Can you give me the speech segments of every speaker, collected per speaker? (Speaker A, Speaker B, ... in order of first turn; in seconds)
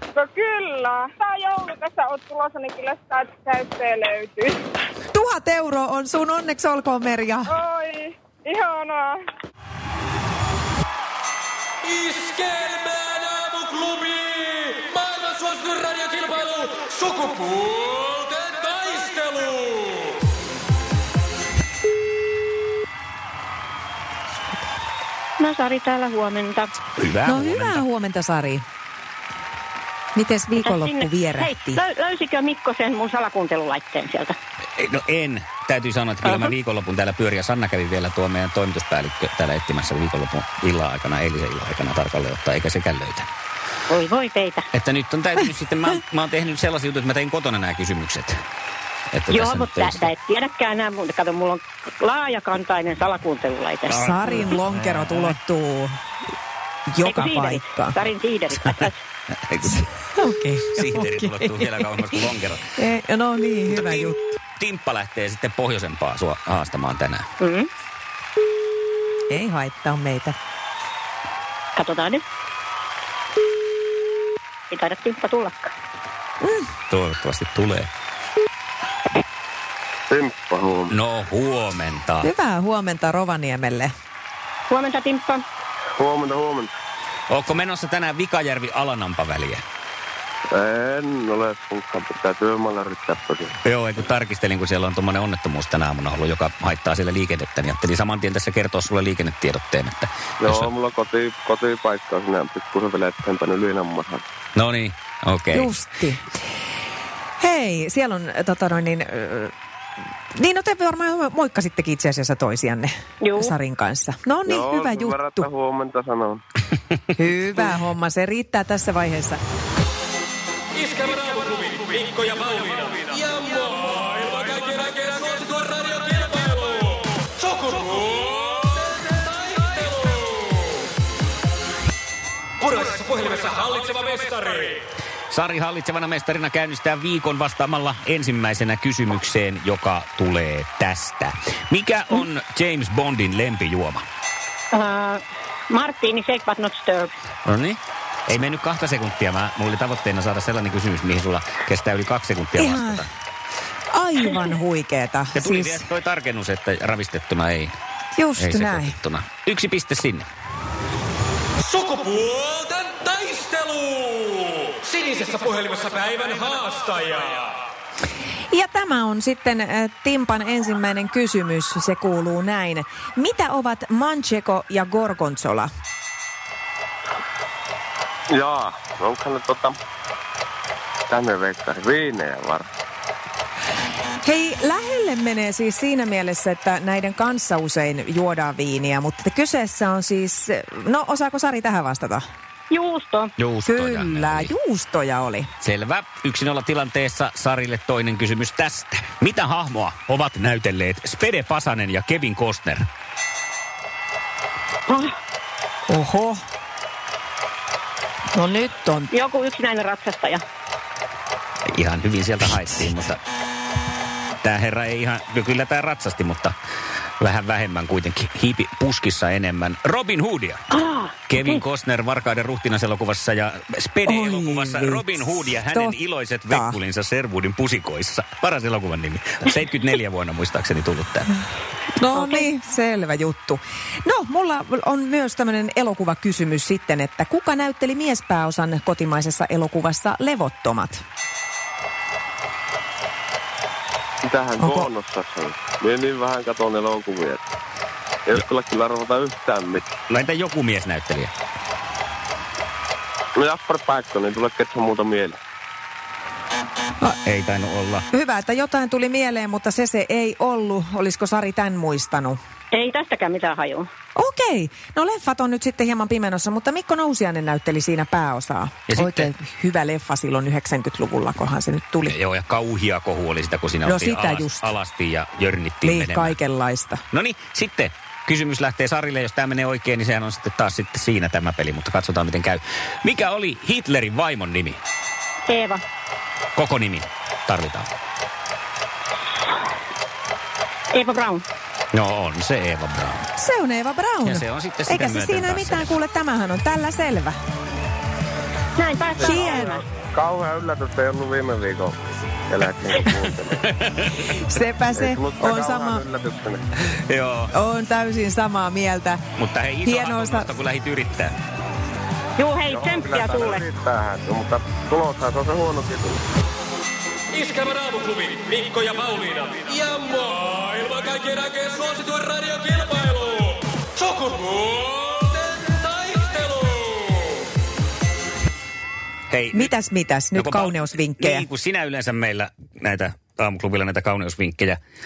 Speaker A: 0.2-4.6, 7.5-9.2
Speaker B: 5.1-7.5, 27.2-28.6, 30.1-31.8, 53.9-55.9, 56.9-58.0, 59.7-62.0, 62.8-64.3, 69.3-70.3, 82.2-83.9, 105.5-106.2, 107.4-109.5, 110.3-115.5, 117.1-119.4, 152.6-153.0, 153.9-155.9, 158.2-159.0, 168.5-175.7, 184.2-192.2, 193.7-195.5, 205.9-206.4, 208.3-209.1, 224.0-226.0, 226.5-226.8, 231.9-241.0, 244.6-244.9, 258.1-262.4, 264.1-272.1, 273.9-274.7, 275.8-277.0, 293.4-297.4, 299.2-299.8, 304.2-306.0, 307.5-309.2, 309.8-310.5, 329.5-331.5
Speaker C: 11.8-20.0, 120.8-130.5, 132.6-134.8, 161.7-167.4, 317.3-327.1
Speaker D: 25.4-26.7, 30.6-34.4, 36.2-36.5, 43.9-44.7, 49.3-54.5, 57.0-59.0, 67.4-67.7, 71.8-72.2, 74.7-75.7, 84.7-85.4, 113.2-113.5, 144.7-147.1, 192.7-193.3, 204.9-205.2, 209.1-210.4, 220.7-221.6, 232.2-232.4, 262.7-263.9, 285.5-285.8, 290.9-291.4, 298.8-299.8, 312.4-313.7
Speaker E: 27.0-27.8, 34.8-43.3, 44.7-48.4, 49.1-50.1, 53.9-55.3, 59.5-59.9, 60.7-62.7, 63.9-67.2, 76.9-77.9, 80.9-82.3, 87.3-89.6, 93.6-100.7, 104.5-105.7, 135.3-144.0, 147.4-153.1, 155.3-157.7, 158.4-160.3, 193.4-194.5, 195.6-202.8, 211.7-213.2, 214.4-216.5, 217.2-220.6, 221.3-231.3, 250.1-251.3, 257.2-258.0, 268.9-269.3, 272.1-276.4, 277.1-284.8, 286.6-287.9, 291.9-293.2, 294.2-295.9, 303.8-304.2, 307.1-307.5, 309.4-311.3, 329.3-329.7, 330.4-334.8
Speaker F: 80.1-80.9, 86.0-86.7, 90.5-93.5, 100.4-104.2, 114.5-116.4, 178.3-179.8, 181.1-182.7, 244.2-247.5, 248.3-249.9, 253.3-255.4, 299.2-301.9, 302.5-303.7, 304.9-306.6, 312.7-316.2